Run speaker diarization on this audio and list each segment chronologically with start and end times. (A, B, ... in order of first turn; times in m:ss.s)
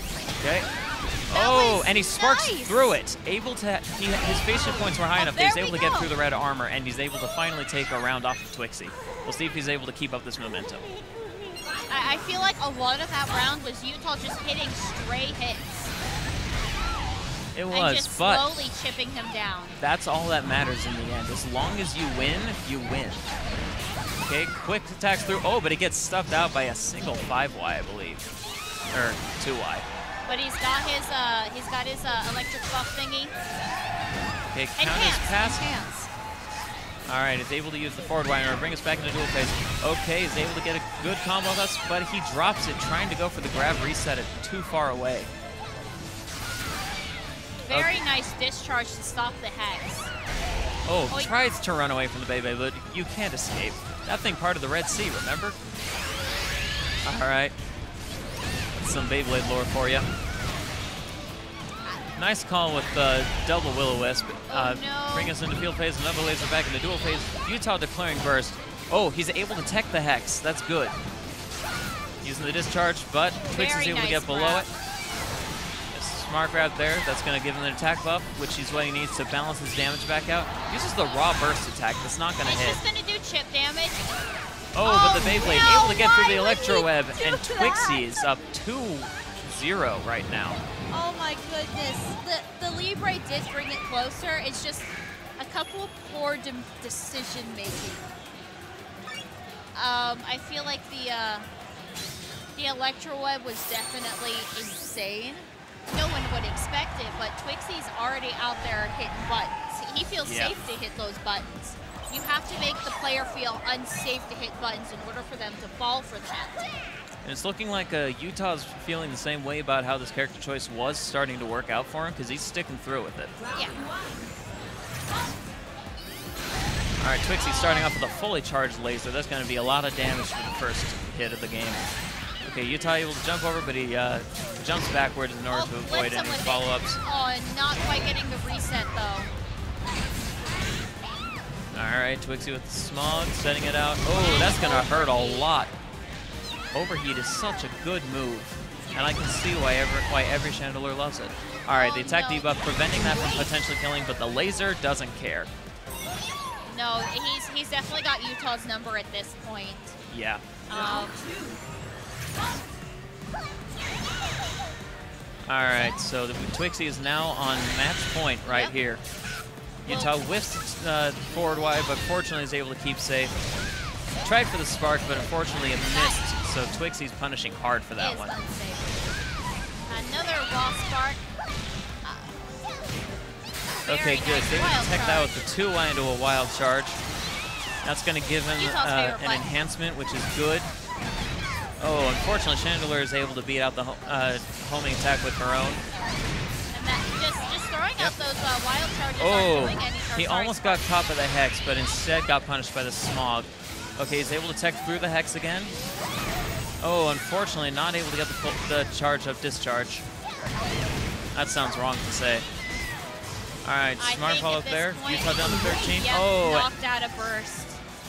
0:00.4-0:00.7 A
0:01.3-0:10.8 A
0:01.3-0:03.0 B
0:05.2-0:06.1 B
0:11.9-0:15.9 B
0:17.5-0:18.5 A
0:17.7-0:19.8 B
0:19.8-0:23.3 A
0:24.2-0:28.3 A
0:28.9-0:29.8 A
0:30.2-0:33.3 B
0:34.5-0:35.6 A
0:34.8-0:36.1 B
0:37.1-0:45.3 A
0:47.6-0:50.1 B
0:50.8-0:55.6 A
0:57.0-0:57.5 A
0:58.7-1:00.1 A
1:02.2-1:11.0 A
1:04.5-1:05.3 B
1:12.2-1:14.7 A
1:13.5-1:14.7 B
1:15.9-1:22.8 A
1:22.4-1:24.2 B
1:24.7-1:30.6 A
1:24.8-1:28.1 B
1:30.9-1:38.1 B
1:39.7-1:41.5 B
1:42.6-1:56.6 B
1:50.2-1:50.6 A
1:57.2-2:03.3 A
2:03.5-2:03.8 B
2:07.0-2:11.9 A
2:07.4-2:08.0 B
2:12.4-2:17.0 A
2:15.5-2:19.3 B
2:21.7-2:25.7 A
2:24.1-2:25.5 B
2:26.7-2:35.5 A
2:31.7-2:33.5 B
2:36.6-2:40.0 B
2:40.1-2:40.4 A
2:40.7-2:41.2 B
2:45.4-2:49.0 A
2:48.5-2:48.7 B
2:49.8-2:53.3 A
2:49.8-2:50.2 B
2:54.2-2:58.3 A
2:55.8-2:56.3 B
2:58.0-2:59.0 B
2:59.9-3:01.2 B
3:02.0-3:02.4 B
3:03.8-3:05.3 B
3:03.9-3:07.0 A
3:07.8-3:10.7 A
3:08.6-3:09.4 B
3:11.8-3:15.8 A
3:16.7-3:20.9 B
3:19.2-3:25.8 A
3:26.8-3:30.0 A
3:31.3-3:32.4 A
3:33.6-3:36.7 A
3:34.0-3:37.8 B